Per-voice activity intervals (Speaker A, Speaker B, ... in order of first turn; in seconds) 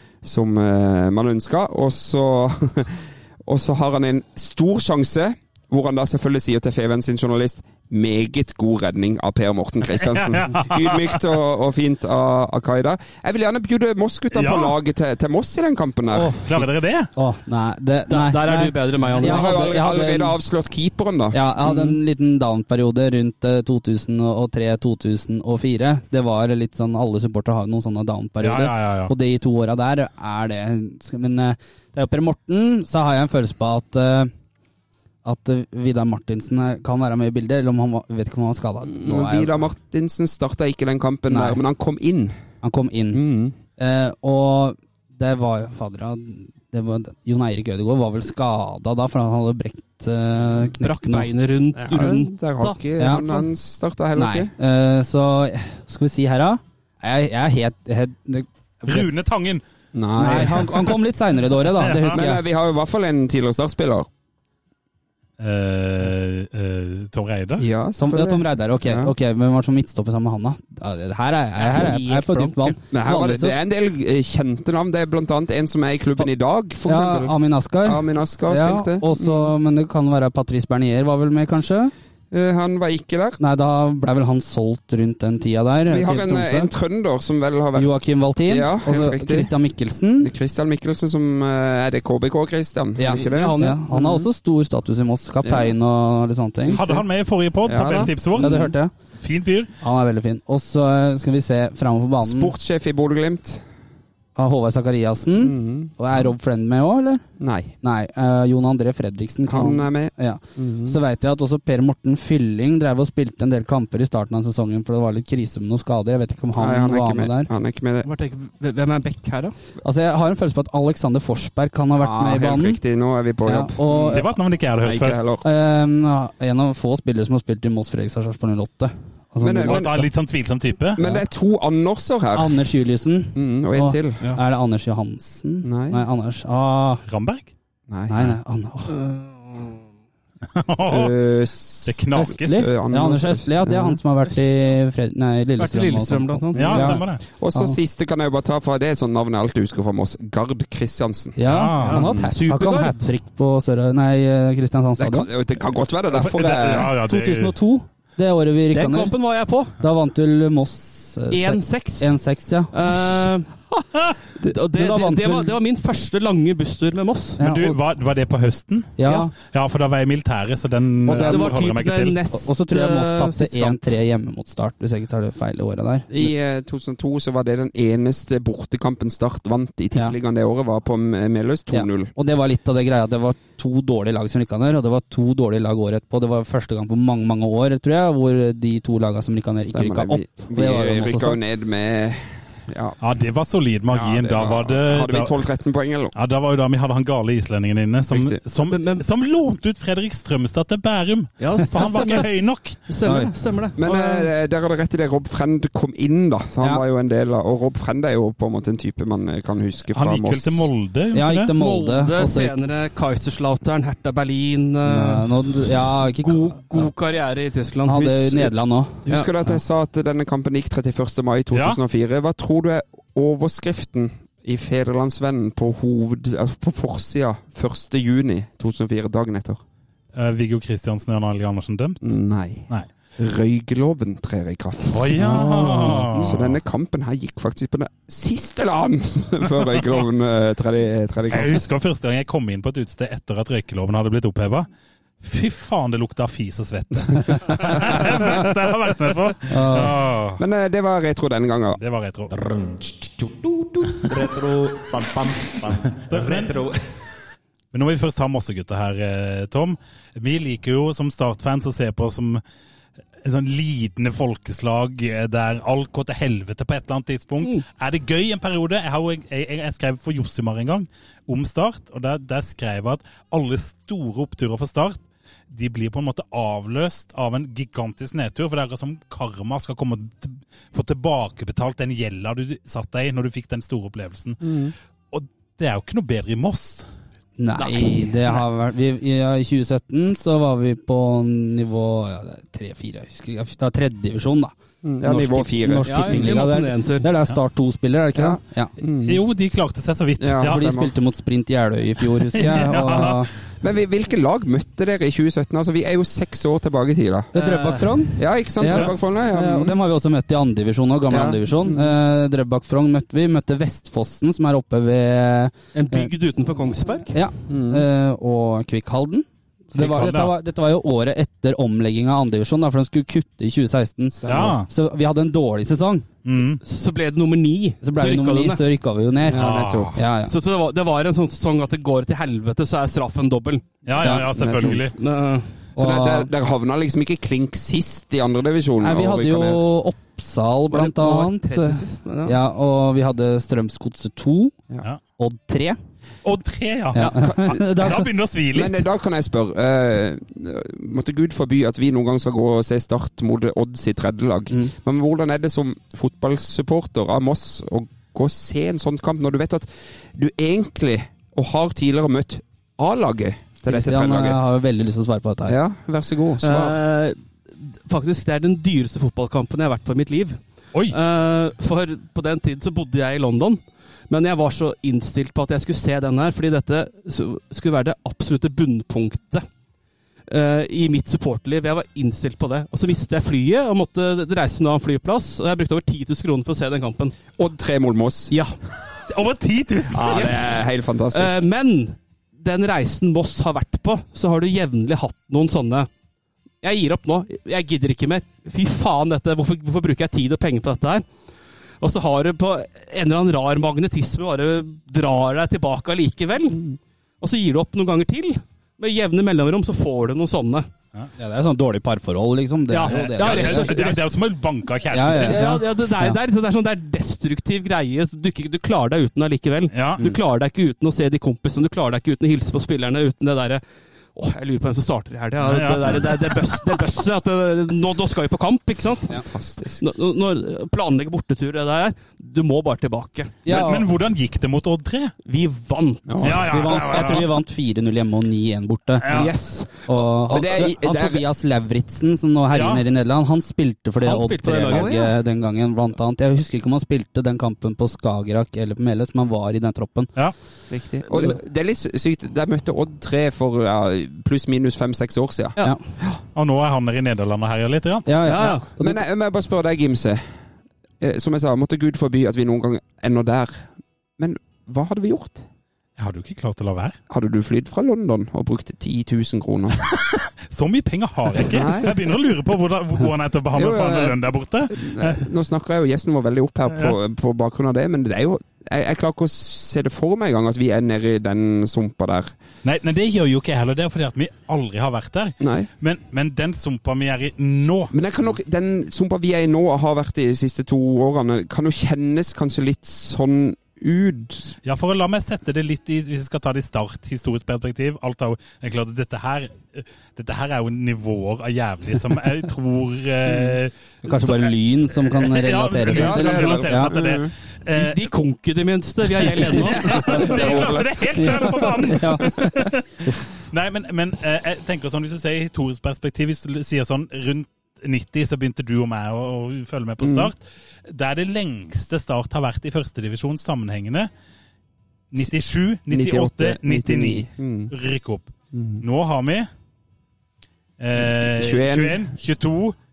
Speaker A: 0.2-16.4, 19.1-21.8, 38.9-42.4, 43.1-43.6, 51.8-54.5, 59.9-60.8, 62.1-64.1, 67.6-69.1, 72.9-79.5, 82.3-83.4, 85.9-87.9, 88.5-89.5, 90.2-94.3, 95.4-95.7, 97.7-98.5, 102.2-103.6, 105.4-105.9, 107.4-107.7, 109.5-111.0, 116.6-118.1, 122.0-124.2, 124.8-125.5, 129.4-130.1, 131.0-132.6, 133.3-134.2, 135.6-136.0, 137.9-138.3, 140.8-144.0, 147.3-151.4, 151.9-152.3, 155.0-156.9, 176.1-182.1, 189.7-193.0, 193.9-196.1, 198.1-198.4, 203.8-210.7, 219.1-229.6, 232.0-241.7, 247.8-248.2, 250.4-251.8, 284.4-284.8, 294.8-296.4, 298.1-299.2, 300.2-300.9, 303.6-307.3, 308.2-309.8, 311.1-312.0, 317.5-317.9, 324.1-324.6, 329.2-330.0, 334.1-334.9, 335.8-339.6, 347.1-348.0, 348.5-364.4, 365.5-366.8, 387.4-388.4, 389.9-391.4, 429.1-429.9, 436.1-436.5, 440.3-441.2, 444.7-445.1, 450.7-456.2, 458.8-460.3, 461.0-465.5, 467.1-469.8, 471.4-472.0, 473.5-474.2, 474.7-482.3, 485.4-485.7, 487.9-494.6, 505.8-507.3, 509.5-511.8, 520.0-520.3, 525.9-527.7, 528.5-528.8, 531.0-532.1
Speaker B: 9.9-11.3, 14.3-14.8, 16.2-17.1, 28.4-29.1, 58.9-59.6, 61.8-62.2, 65.4-67.7, 96.7-98.7, 99.2-99.7, 124.1-125.2, 129.6-131.0, 137.1-137.5, 140.5-141.2, 141.8-142.7, 146.6-147.2, 151.5-152.1, 156.1-157.5, 167.4-172.2, 193.0-195.4, 196.2-202.8, 209.9-211.5, 221.5-221.8, 230.1-232.2, 234.9-236.6, 241.3-244.7, 245.2-250.4, 251.8-252.4, 255.9-256.6, 257.7-262.4, 263.2-275.0, 275.5-284.4, 285.1-286.9, 299.1-300.7, 302.2-303.2, 319.8-320.3, 324.3-324.7, 326.2-326.6, 329.3-330.0, 333.9-334.9, 346.2-348.8, 389.1-390.4, 412.9-415.6, 419.7-420.1, 425.4-426.8, 433.5-435.2, 436.2-437.3, 439.0-439.3, 442.5-442.8, 456.4-458.1, 466.0-467.0, 469.8-475.2, 482.6-487.9, 494.6-508.0, 509.1-524.1, 525.1-529.5, 530.8-532.8
Speaker C: 17.1-20.4, 21.3-34.3, 35.2-39.6, 41.3-41.6, 42.6-43.2, 43.8-51.3, 53.0-53.5, 54.2-59.1, 60.2-62.4, 68.0-73.6, 76.9-81.9, 83.4-86.7, 87.8-90.3, 93.0-96.8, 98.3-98.9, 99.8-102.5, 104.4-107.2, 107.8-117.5, 119.8-122.8, 123.5-124.3, 125.4-130.1, 132.3-137.0, 138.1-139.0, 142.2-147.8, 151.4-155.3, 156.6-159.2, 159.8-163.3, 164.4-165.6, 167.4-167.8, 169.0-169.3, 171.1-171.6, 172.3-176.2, 181.7-191.4, 203.0-203.3, 211.1-212.6, 214.8-216.9, 217.8-219.0, 235.2-236.2, 249.5-250.0, 287.4-298.7, 300.4-303.3, 307.3-316.1, 317.1-326.1, 327.8-330.3, 334.0-334.3, 335.8-336.3, 338.8-344.6, 345.2-345.8, 346.9-348.1, 363.7-365.6, 411.2-413.8, 414.9-416.2, 433.4-433.9, 436.4-439.3, 439.9-450.1, 458.1-459.0, 504.1-506.9, 511.2-513.3
Speaker D: 18.1-19.6, 50.7-52.8, 71.6-72.8, 93.1-93.8, 118.0-119.6, 138.9-139.8, 145.6-147.0, 151.8-153.1, 158.7-159.8, 161.3-162.2, 162.7-163.8, 164.4-167.4, 171.1-173.8, 198.6-199.1, 201.4-202.3, 202.9-204.3, 211.6-218.5, 287.6-288.4, 295.9-297.1, 307.4-308.0, 315.7-317.1, 326.6-328.6, 330.3-333.7, 334.9-335.5, 340.7-342.4, 366.4-370.4, 370.9-379.5, 380.3-387.1, 389.9-395.9, 396.6-401.1, 401.8-410.7, 412.7-414.0, 415.1-423.6, 424.1-429.1, 429.8-433.4, 435.2-437.2, 439.1-440.4, 444.0-445.1, 458.2-458.7, 507.7-510.8
Speaker E: 252.3-256.9